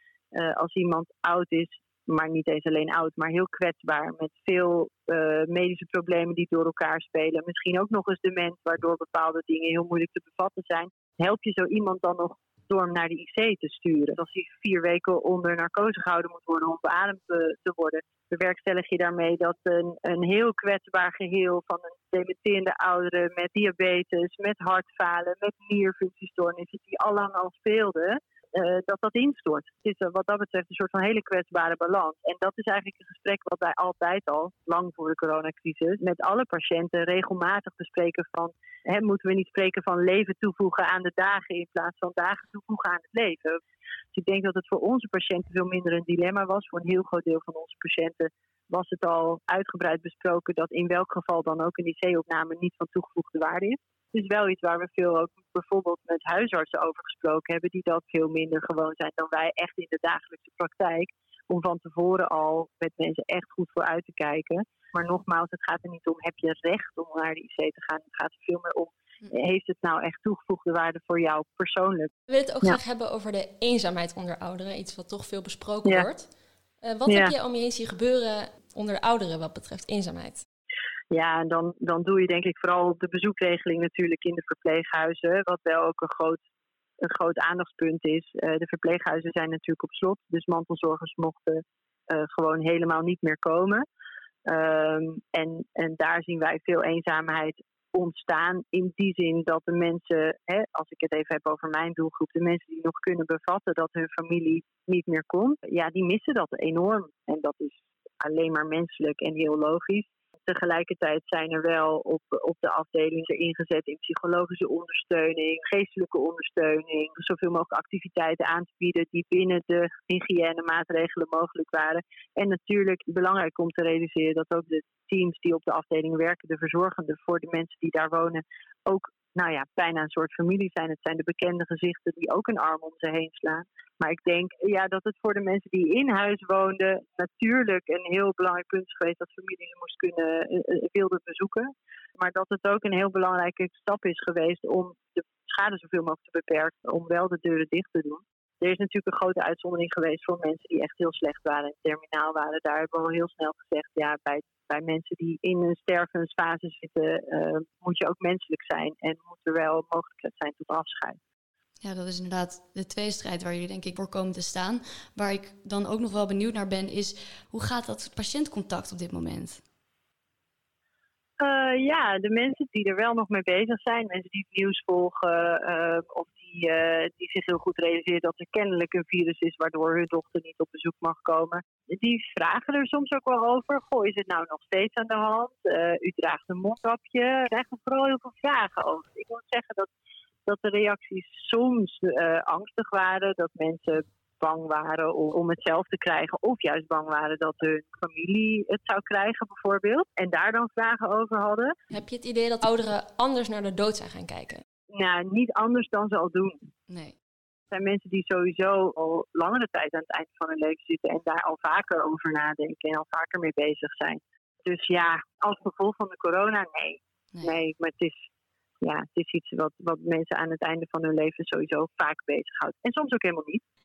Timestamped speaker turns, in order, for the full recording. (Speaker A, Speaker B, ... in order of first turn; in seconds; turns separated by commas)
Speaker A: 0.3-43.6, Speaker A: 44.1-72.1, Speaker B: 72.3-76.3, Speaker B: 76.8-80.4, Speaker A: 77.1-77.3, Speaker A: 81.1-86.4, Speaker A: 87.0-93.8, Speaker A: 94.5-161.2, Speaker C: 161.8-169.6, Speaker A: 171.4-189.9, Speaker A: 190.5-201.7, Speaker B: 201.9-204.6, Speaker A: 204.9-206.6, Speaker C: 206.9-207.2, Speaker A: 207.7-218.2, Speaker A: 218.8-223.6